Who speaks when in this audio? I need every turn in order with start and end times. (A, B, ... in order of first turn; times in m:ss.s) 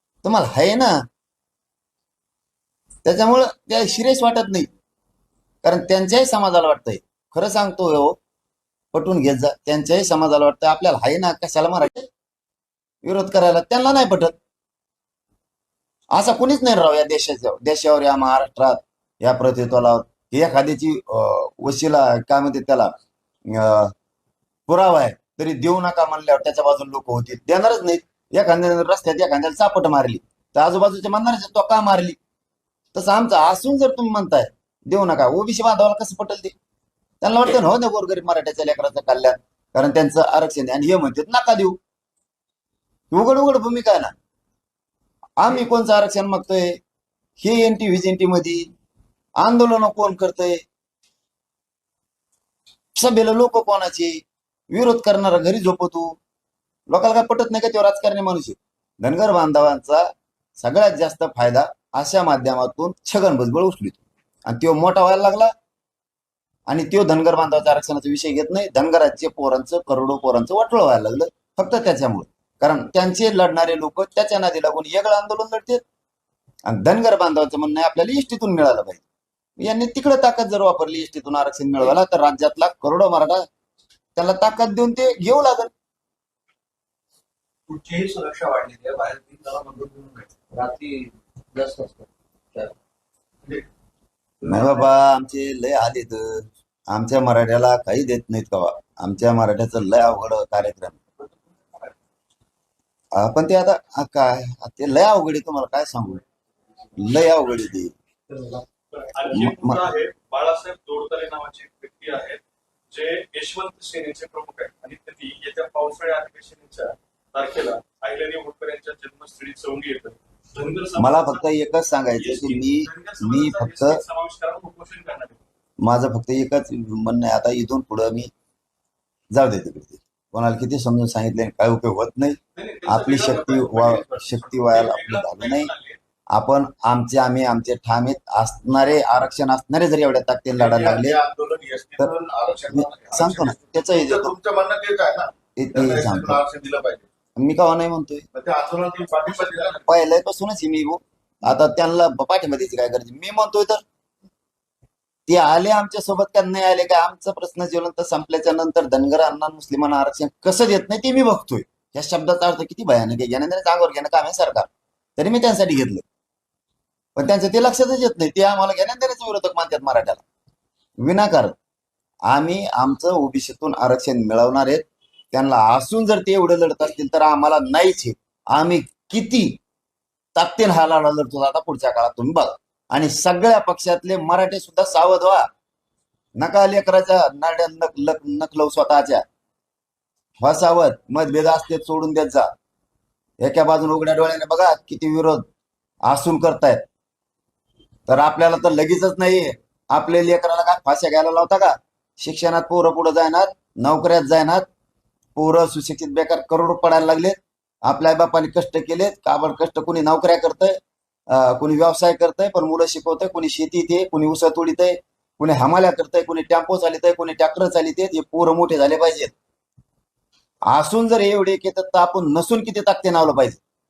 0:00.2-0:01.0 A
0:03.0-0:04.7 A
0:05.6-0:08.2 A
0:08.9-0:12.1 A
0:13.0-0:14.4 A
0:16.1-0:22.9 A
0:23.5-0:23.9 A
0:24.7-0:32.2 A
0:32.9-0:36.5 A
0:37.2-0:41.8 A
0:43.1-0:44.1 A
0:45.4-0:46.8 A
0:47.4-0:48.7 A
0:49.4-0:50.6 A
0:53.0-0:56.2 A
0:56.9-1:05.5 A
1:06.7-1:15.8 A
1:16.7-1:19.0 A
1:19.6-1:23.4 A
1:24.2-1:25.7 A
1:27.7-1:32.7 B
1:34.4-1:34.9 B
1:34.4-1:41.0 A
1:41.2-1:41.9 B
1:43.2-1:46.2 A
1:47.0-1:47.9 A
1:48.3-1:48.6 B
1:48.9-1:52.4 C
1:49.3-1:49.8 A
1:52.9-2:01.4 C
2:01.0-2:04.0 A
2:02.2-2:05.4 C
2:05.8-2:08.3 A
2:09.3-2:15.7 A
2:12.6-2:16.0 C
2:16.3-2:21.2 A
2:20.6-2:27.1 D
2:22.7-2:24.3 A
2:25.6-2:26.4 A
2:27.4-2:28.2 A
2:28.3-2:29.9 D
2:29.2-2:29.8 C
2:29.9-2:33.8 A
2:35.3-2:46.0 A
2:47.2-2:50.2 A
2:51.0-2:51.6 A
2:52.3-2:59.6 A
3:00.4-3:05.5 A
3:06.4-3:09.2 A
3:10.4-3:12.5 A
3:13.4-3:15.5 A
3:16.0-3:16.8 A
3:18.1-3:24.6 A
3:25.4-3:30.8 A
3:31.3-3:39.3 A
3:40.7-3:43.6 A